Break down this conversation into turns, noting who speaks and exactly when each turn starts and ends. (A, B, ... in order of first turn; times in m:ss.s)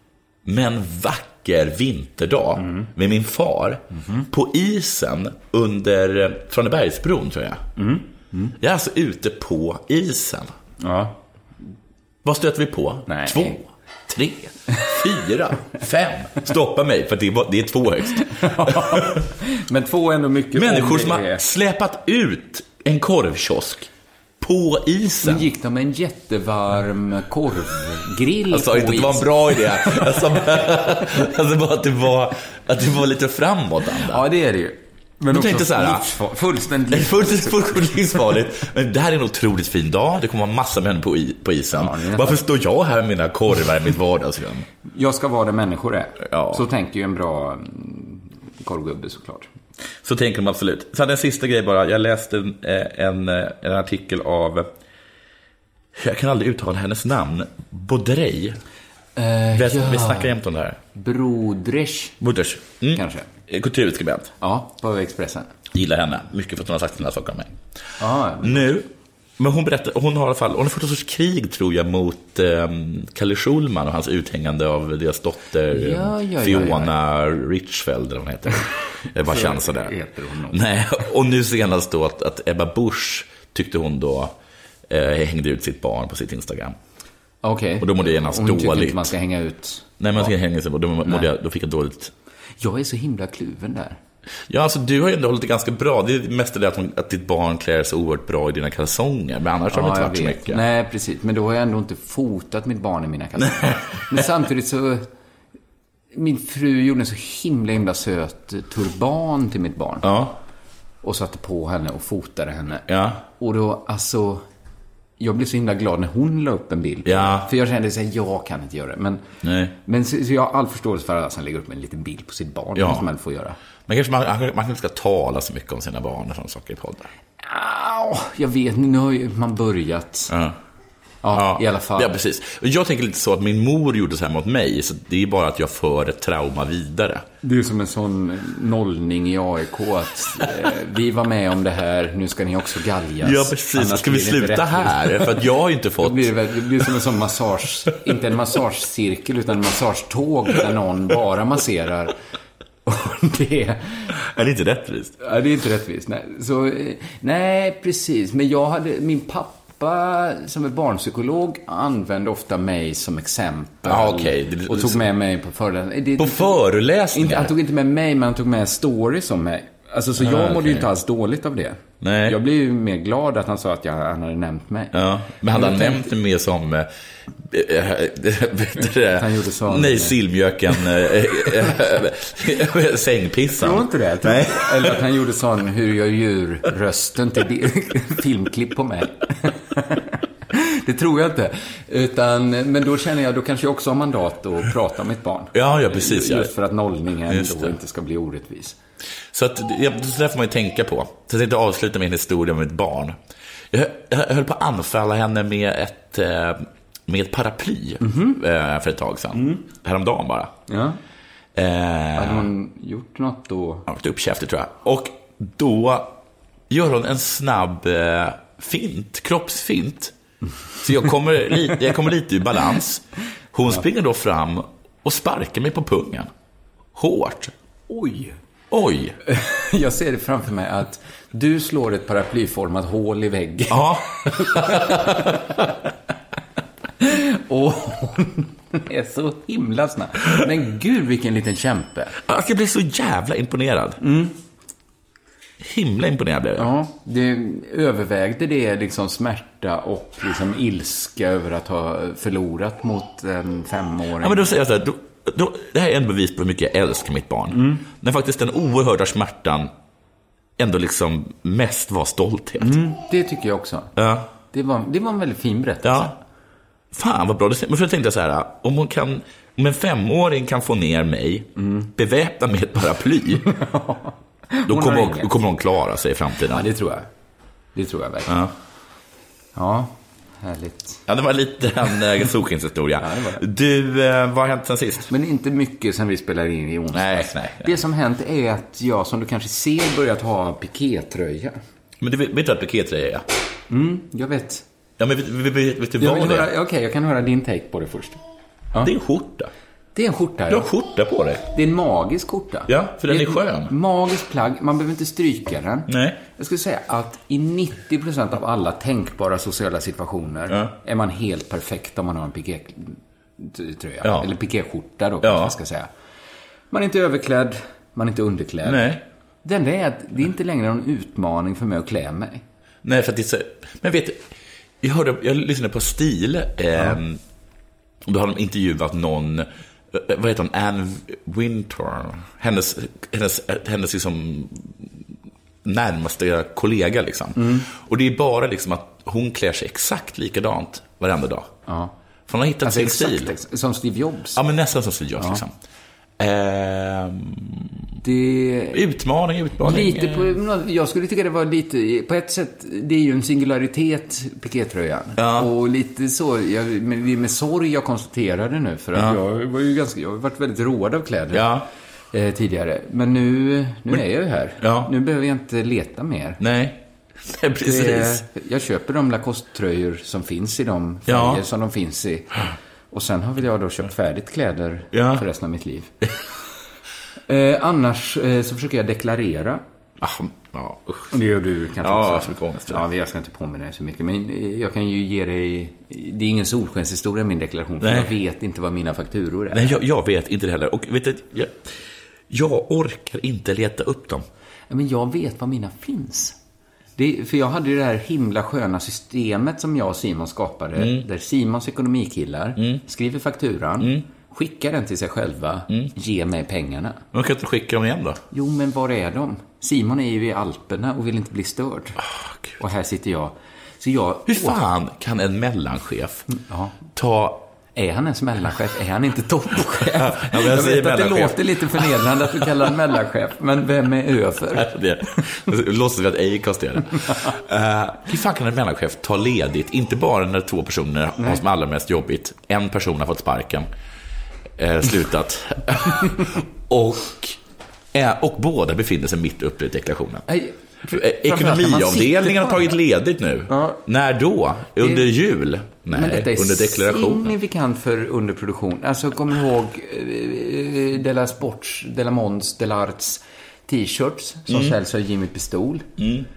0:00.4-0:07.6 A
0:02.6-0:02.9 B
0:03.9-0:04.3 B
0:07.8-0:08.6 B
0:08.6-0:10.5 A
0:10.8-0:11.2 B
0:12.2-0:19.2 A
0:13.1-0:13.6 B
0:18.3-0:21.4 B
0:20.6-0:23.9 A
0:24.4-0:25.5 A
0:25.2-0:30.4 B
0:28.5-0:34.2 A
0:34.1-0:38.1 B
0:35.3-0:36.1 A
0:36.9-0:44.7 A
0:41.7-0:42.4 B
0:44.9-0:49.5 B
0:46.2-0:46.6 A
0:50.0-0:54.7 A
0:56.0-0:58.6 A
0:59.2-1:00.3 B
0:59.5-1:00.8 A
1:01.0-1:02.2 B
1:02.2-1:04.3 A
1:02.9-1:03.3 B
1:04.4-1:05.5 B
1:05.7-1:07.5 A
1:08.0-1:08.7 B
1:08.4-1:19.9 A
1:15.7-1:16.9 B
1:19.2-1:20.6 B
1:20.5-1:24.3 A
1:24.9-1:26.8 A
1:27.4-1:30.3 B
1:27.8-1:29.1 A
1:30.0-1:32.1 A
1:32.6-1:34.0 B
1:34.5-1:40.6 A
1:39.7-1:45.1 B
1:46.1-1:50.1 B
1:50.0-1:50.4 A
1:51.0-1:52.9 B
1:52.9-1:53.2 A
1:53.4-1:54.4 B
1:55.2-1:59.2 B
1:57.0-1:57.5 A
1:59.4-1:59.8 A
1:59.8-2:03.6 B
2:02.8-2:03.0 A
2:03.9-2:07.1 A
2:07.4-2:10.3 B
2:10.3-2:10.6 A
2:11.2-2:12.1 B
2:11.3-2:17.2 A
2:17.4-2:25.4 B
2:23.2-2:26.3 A
2:26.0-2:32.1 B
2:32.8-2:34.1 B
2:34.2-2:35.2 A
2:35.2-2:46.6 B
2:43.8-2:45.1 A
2:46.2-2:47.5 A
2:47.1-2:55.0 B
2:50.2-2:50.9 A
2:52.0-2:52.4 A
2:54.9-2:56.9 A
2:55.5-2:56.1 B
2:57.4-3:05.0 A
2:59.1-3:00.2 B
3:03.6-3:18.8 B
3:15.5-3:16.5 A
3:17.3-3:17.8 A
3:19.3-3:23.2 A
3:23.7-3:30.5 A
3:28.0-3:28.4 B
3:29.3-3:29.6 B
3:30.7-3:31.0 B
3:31.6-3:32.5 A
3:32.2-3:33.9 B
3:33.9-3:36.1 A
3:36.7-3:40.1 A
3:40.8-3:46.3 A
3:47.0-3:47.5 A
3:47.9-3:48.4 B
3:48.7-3:49.2 A
3:49.3-3:55.5 B
3:53.7-3:55.4 A
3:57.0-4:02.2 B
4:02.2-4:04.0 A
4:04.0-4:04.4 B
4:05.6-4:06.7 A
4:06.6-4:14.5 B
4:14.2-4:19.7 A
4:17.5-4:17.8 B
4:20.6-4:22.8 A
4:22.6-4:23.9 B
4:24.0-4:24.3 A
4:24.5-4:26.1 B
4:25.8-4:26.2 A
4:26.9-4:33.5 A
4:31.6-4:31.9 B
4:33.5-4:35.3 B
4:34.7-4:36.7 A
4:36.5-4:37.1 B
4:37.8-4:38.4 B
4:38.3-4:38.5 A
4:39.6-4:41.0 B
4:41.1-4:45.1 A
4:43.0-4:43.4 B
4:45.1-4:51.6 B
4:46.9-4:47.8 A
4:52.0-4:53.2 A
4:53.7-4:54.6 B
4:55.0-4:56.5 A
4:56.0-4:58.2 B
4:58.8-4:59.5 A
5:00.0-5:00.7 B
5:00.5-5:01.4 A
5:01.5-5:15.9 B
5:02.7-5:03.7 A
5:05.9-5:06.2 A
5:14.0-5:14.3 A
5:15.2-5:15.5 A
5:16.7-5:18.8 B
5:18.6-5:19.0 A
5:19.4-5:22.4 B
5:22.8-5:24.2 A
5:24.8-5:27.2 A
5:28.0-5:34.7 A
5:35.6-5:41.5 A
5:37.4-5:37.7 B
5:41.7-5:41.9 B
5:42.3-5:43.3 A
5:42.6-5:44.4 B
5:44.4-5:45.5 A
5:46.2-5:47.8 A
5:48.0-5:48.8 B
5:48.7-5:50.4 A
5:49.6-6:01.5 B
5:55.2-5:55.5 A
6:01.3-6:01.7 A
6:02.1-6:06.4 B
6:04.6-6:04.9 A
6:06.4-6:08.2 A
6:07.6-6:15.9 B
6:11.1-6:11.4 A
6:14.9-6:15.2 A
6:17.3-6:19.6 B
6:20.0-6:21.1 A
6:21.1-6:29.8 B
6:21.8-6:22.8 A
6:27.8-6:28.1 A
6:29.5-6:31.7 A
6:32.3-6:34.3 A
6:34.7-6:36.4 B
6:37.0-6:47.0 B
6:40.8-6:41.0 A
6:47.1-6:48.2 A
6:48.3-6:52.0 B
6:52.6-6:54.6 B
6:54.3-6:56.3 A
6:56.3-6:56.8 B
6:57.0-6:57.4 A
6:57.8-7:04.7 B
6:59.9-7:02.2 A
7:04.5-7:13.7 A
7:14.6-7:17.4 A
7:17.9-7:20.3 A
7:20.3-7:22.7 B
7:20.9-7:27.3 A
7:23.5-7:23.8 B
7:24.8-7:25.1 B
7:25.9-7:35.9 B
7:34.5-7:34.8 A
7:36.0-7:36.3 A